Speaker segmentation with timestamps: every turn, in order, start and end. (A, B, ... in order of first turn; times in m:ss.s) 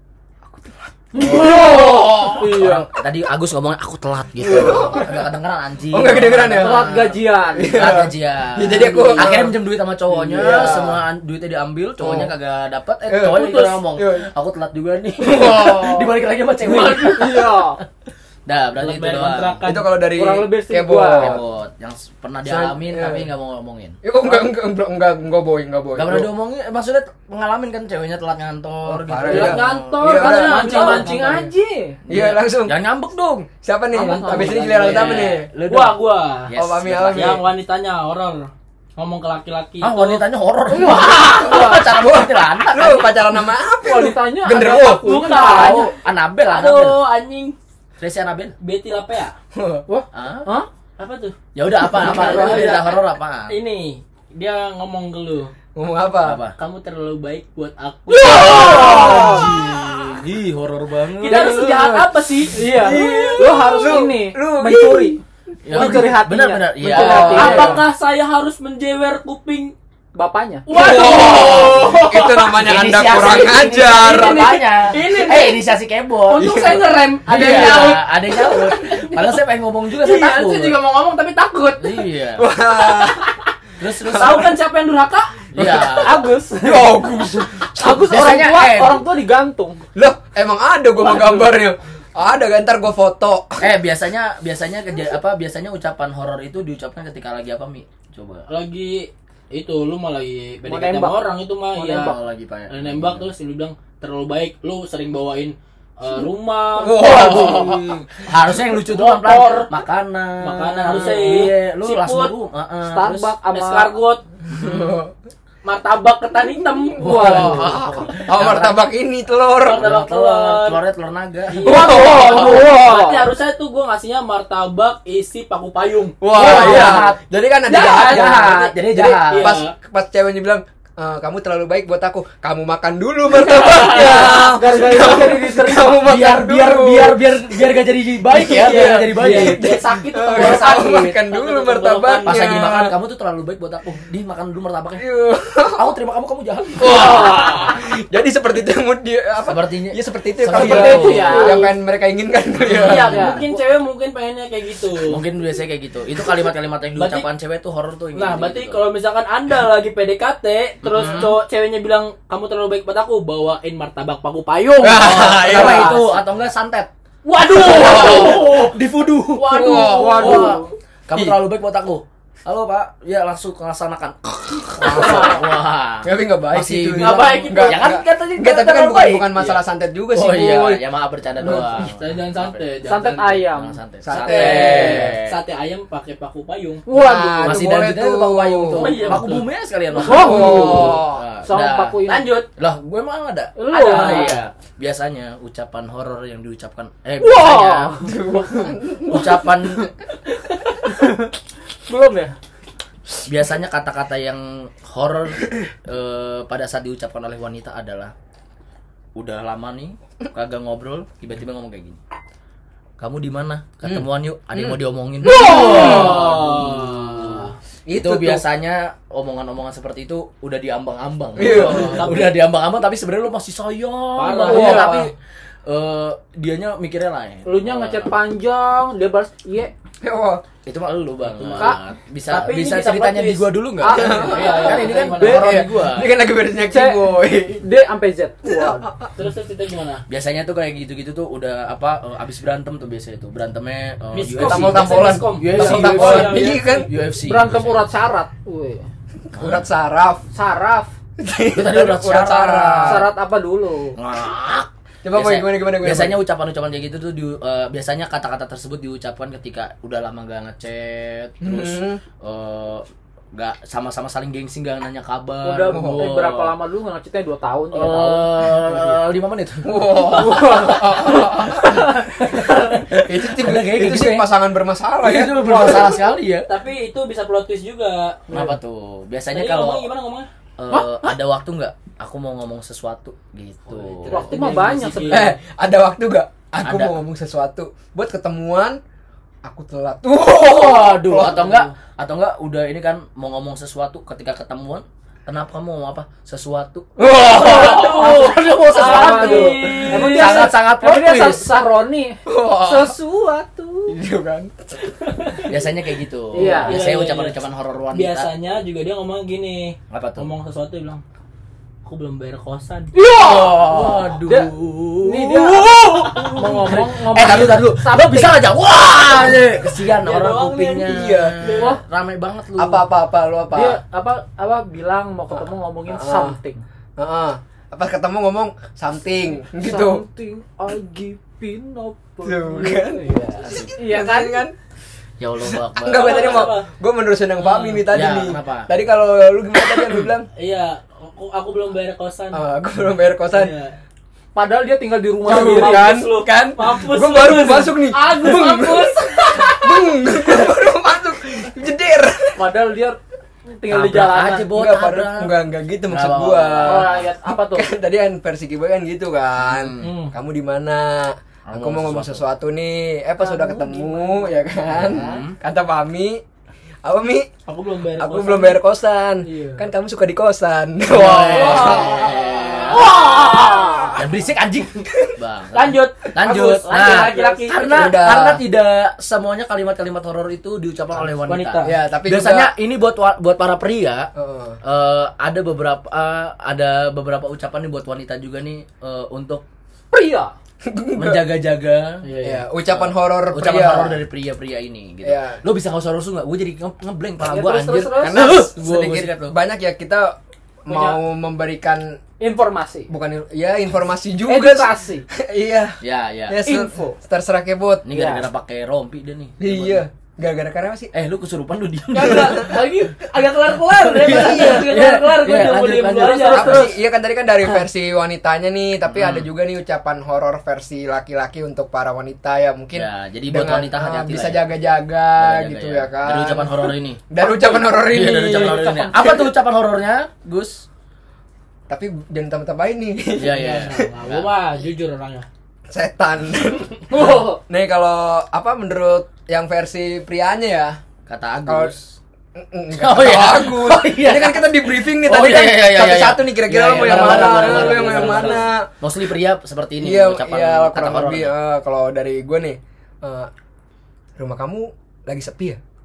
0:00.5-0:01.7 A
0:01.1-0:02.9 B
0:01.2-0:17.7 C
0:01.3-0:01.8 D
0:04.4-0:05.3 A
0:05.9-0:06.9 A
0:06.5-0:08.0 B
0:07.5-0:09.6 A
0:08.7-0:09.3 B
0:10.1-0:11.0 A
0:12.0-0:12.3 A
0:13.1-0:14.3 A
0:13.3-0:13.8 D
0:15.2-0:16.1 A
0:16.6-0:17.4 D
0:17.1-0:17.8 B
0:18.5-0:19.6 C
0:18.8-0:19.9 D
0:19.6-0:21.4 A
0:20.1-0:21.4 B
0:21.2-0:24.0 C
0:22.4-0:23.3 A
0:24.0-0:26.3 A
0:26.0-0:30.3 C
0:28.9-0:31.4 A
0:29.3-0:32.0 B
0:29.3-0:31.5 D
0:32.1-0:32.8 A
0:32.1-0:33.5 C
0:33.6-0:35.5 A
0:33.9-0:34.6 B
0:34.0-0:36.5 D
0:34.2-0:37.4 C
0:36.5-0:37.4 A
0:37.1-0:40.2 D
0:39.8-0:43.2 C
0:40.7-0:41.9 B
0:41.1-0:45.2 A
0:43.8-0:45.9 B
0:44.6-0:46.0 D
0:45.3-0:47.0 C
0:46.5-0:47.6 D
0:48.0-0:48.6 C
0:48.6-0:49.4 D
0:49.5-0:49.8 A
0:49.9-0:50.7 B
0:50.1-0:50.5 C
0:51.0-0:55.5 D
0:51.6-0:53.6 C
0:52.0-0:52.8 B
0:55.8-0:56.4 A
0:56.2-0:56.6 C
0:56.6-0:59.4 D
0:58.2-1:01.8 C
0:58.2-0:59.5 B
0:58.5-0:59.4 A
1:01.2-1:02.6 D
1:01.4-1:05.2 A
1:02.5-1:05.2 B
1:05.6-1:07.8 C
1:05.7-1:07.8 B
1:05.8-1:06.0 A
1:06.8-1:09.7 D
1:07.1-1:07.8 A
1:10.2-1:11.1 B
1:10.7-1:12.6 D
1:10.7-1:14.5 A
1:11.0-1:11.9 C
1:12.6-1:16.6 C
1:13.9-1:15.7 D
1:16.3-1:19.4 D
1:16.3-1:16.9 A
1:17.3-1:20.8 C
1:19.9-1:22.0 D
1:21.8-1:22.5 C
1:22.4-1:23.2 A
1:22.9-1:23.3 D
1:23.8-1:24.5 C
1:24.0-1:24.5 A
1:24.0-1:26.2 D
1:25.5-1:26.3 C
1:25.7-1:29.8 B
1:26.6-1:28.2 A
1:28.0-1:29.0 C
1:30.0-1:33.7 A
1:33.6-1:38.5 C
1:38.5-1:42.2 D
1:40.7-1:42.2 B
1:42.0-1:43.3 C
1:42.7-1:47.8 D
1:46.8-1:48.0 A
1:46.9-1:53.3 C
1:48.9-1:49.7 D
1:50.4-1:52.3 D
1:52.8-1:53.9 B
1:53.5-1:54.2 D
1:54.5-1:55.1 A
1:54.6-1:54.9 C
1:55.6-1:57.8 D
1:57.0-1:58.9 C
1:57.0-1:57.7 B
1:57.1-2:00.0 A
1:59.6-2:00.8 D
1:59.6-2:02.5 C
2:01.5-2:07.0 D
2:01.6-2:03.3 B
2:01.6-2:02.7 A
2:06.2-2:17.6 A
2:06.3-2:07.2 C
2:06.4-2:07.0 B
2:07.7-2:08.7 D
2:07.9-2:09.6 C
2:09.3-2:09.7 D
2:13.3-2:14.5 D
2:13.7-2:16.0 B
2:16.0-2:19.6 C
2:18.3-2:23.0 A
2:18.4-2:22.8 D
2:20.3-2:20.9 C
2:22.2-2:25.1 C
2:25.0-2:25.9 A
2:25.7-2:27.4 C
2:26.8-2:33.4 A
2:29.4-2:31.5 C
2:30.5-2:31.7 B
2:30.8-2:31.7 D
2:32.7-2:33.2 C
2:32.7-2:35.2 D
2:32.9-2:33.5 B
2:35.0-2:38.8 C
2:37.0-2:37.3 D
2:38.2-2:46.2 D
2:40.8-2:41.4 C
2:44.8-2:46.0 A
2:44.8-2:46.9 C
2:47.2-2:48.8 D
2:47.6-2:48.6 A
2:47.6-2:59.6 C
2:49.3-2:50.6 D
2:49.5-2:50.6 A
2:49.7-2:50.7 B
2:51.1-2:51.4 A
2:54.8-2:55.4 A
2:54.8-2:55.4 D
2:56.0-3:00.8 A
2:57.0-2:58.0 D
3:00.1-3:02.6 C
3:01.4-3:01.9 A
3:01.8-3:03.4 D
3:02.8-3:03.8 B
3:03.3-3:05.4 C
3:04.0-3:05.2 A
3:04.1-3:06.9 D
3:06.9-3:07.7 B
3:06.9-3:09.2 A
3:07.4-3:18.0 C
3:08.7-3:09.5 D
3:10.0-3:12.4 B
3:10.0-3:11.2 A
3:10.1-3:10.5 D
3:12.1-3:12.5 D
3:13.6-3:14.4 B
3:13.7-3:14.4 D
3:17.2-3:18.4 B
3:18.0-3:19.4 A
3:19.1-3:19.9 C
3:20.7-3:21.3 B
3:21.9-3:22.4 B
3:23.2-3:28.1 C
3:29.2-3:32.0 C
3:33.0-3:45.1 C
3:33.8-3:36.3 A
3:35.3-3:37.6 D
3:37.9-3:38.4 A
3:41.4-3:42.2 A
3:41.4-3:42.3 D
3:44.2-3:45.1 D
3:44.4-3:45.1 B
3:44.5-3:44.9 A
3:45.7-3:48.1 C
3:47.4-3:49.7 B
3:50.0-3:50.4 A
3:50.7-3:56.2 C
3:51.4-3:51.8 D
3:52.3-3:55.5 D
3:53.8-3:55.6 B
3:53.9-3:57.6 A
3:56.7-3:58.9 B
3:58.4-3:59.1 A
3:59.2-4:00.0 D
4:00.1-4:07.9 C
4:04.1-4:06.7 D
4:04.4-4:06.9 A
4:05.5-4:08.9 B
4:09.3-4:10.2 A
4:09.4-4:09.6 C
4:10.3-4:10.9 B
4:11.2-4:13.1 A
4:11.5-4:13.1 C
4:12.8-4:14.0 B
4:14.0-4:26.6 C
4:15.0-4:16.2 A
4:21.4-4:22.0 A
4:25.4-4:29.0 B
4:25.7-4:26.1 A
4:27.7-4:34.3 C
4:29.6-4:32.0 A
4:30.0-4:32.4 B
4:33.0-4:35.8 A
4:35.0-4:36.5 C
4:35.4-4:35.9 B
4:36.5-4:38.3 D
4:38.3-4:38.6 B
4:38.3-4:39.9 C
4:39.3-4:40.3 D
4:40.6-4:44.7 C
4:40.7-4:41.1 B
4:44.0-4:45.3 D
4:44.1-4:45.4 B
4:45.1-4:48.8 A
4:46.6-4:47.0 C
4:49.4-4:51.5 A
4:50.2-5:01.5 C
4:51.2-4:51.7 D
4:57.0-4:59.8 A
4:57.3-5:00.5 D
4:58.7-5:04.0 B
5:02.3-5:03.0 A
5:03.9-5:04.9 A
5:05.0-5:05.5 D
5:05.5-5:08.3 C
5:06.3-5:06.8 B
5:06.6-5:07.4 D
5:07.9-5:11.0 D
5:09.9-5:10.3 C
5:11.8-5:12.9 D
5:12.9-5:18.5 B
5:13.2-5:22.9 C
5:19.9-5:21.8 D
5:20.8-5:21.4 A
5:22.6-5:23.8 A
5:23.5-5:26.6 B
5:25.9-5:26.4 A
5:27.0-5:30.0 A
5:29.6-5:34.4 B
5:32.2-5:33.2 A
5:33.4-5:33.8 C
5:33.8-5:34.6 A
5:35.2-5:36.5 C
5:35.8-5:40.3 A
5:35.9-5:36.7 D
5:37.4-5:37.8 D
5:37.9-5:38.7 C
5:40.4-5:42.4 D
5:42.3-5:43.5 A
5:43.3-5:43.8 D
5:44.4-5:45.9 B
5:45.2-5:48.5 D
5:45.2-5:52.5 A
5:47.9-5:49.8 B
5:52.4-5:54.5 B
5:53.7-5:57.0 C
5:54.5-6:06.2 A
5:56.6-5:57.7 B
5:59.4-6:00.0 C
5:59.8-6:00.1 D
6:01.5-6:02.2 C
6:03.2-6:05.2 B
6:04.7-6:05.4 C
6:06.8-6:07.3 A
6:07.5-6:08.6 D
6:08.0-6:12.0 A
6:09.3-6:09.6 D
6:10.9-6:13.0 C
6:11.4-6:12.2 D
6:11.4-6:11.9 B
6:12.7-6:13.9 D
6:12.7-6:14.0 B
6:14.0-6:24.1 C
6:15.5-6:17.9 D
6:16.3-6:17.8 B
6:17.7-6:18.4 A
6:21.2-6:21.7 D
6:21.6-6:22.5 A
6:24.2-6:24.6 A
6:24.6-6:29.4 C
6:29.9-6:30.3 B
6:30.6-6:31.2 A
6:31.0-6:32.1 C
6:32.0-6:32.4 D
6:32.2-6:34.0 A
6:32.7-6:39.4 C
6:35.0-6:35.4 A
6:37.2-6:38.2 B
6:37.9-6:42.0 A
6:40.7-6:41.0 B
6:42.2-6:42.9 B
6:42.9-6:47.9 A
6:44.3-6:45.1 B
6:45.8-6:46.4 C
6:46.4-6:47.0 B
6:47.8-6:49.8 C
6:47.9-6:48.2 B
6:49.4-6:50.9 A
6:50.9-6:52.6 C
6:51.9-6:56.7 D
6:52.0-6:52.4 A
6:53.7-6:56.7 C
6:56.1-7:08.7 A
6:58.9-6:59.3 C
7:02.7-7:04.4 C
7:05.2-7:10.6 C
7:08.0-7:09.3 B
7:11.7-7:13.9 A
7:13.2-7:14.3 C
7:13.3-7:15.3 D
7:15.7-7:20.8 A
7:16.9-7:17.4 B
7:21.1-7:21.8 C
7:21.5-7:21.8 A
7:22.4-7:28.7 A
7:22.7-7:31.3 C
7:26.8-7:28.4 D
7:29.8-7:33.3 A
7:34.2-7:35.6 A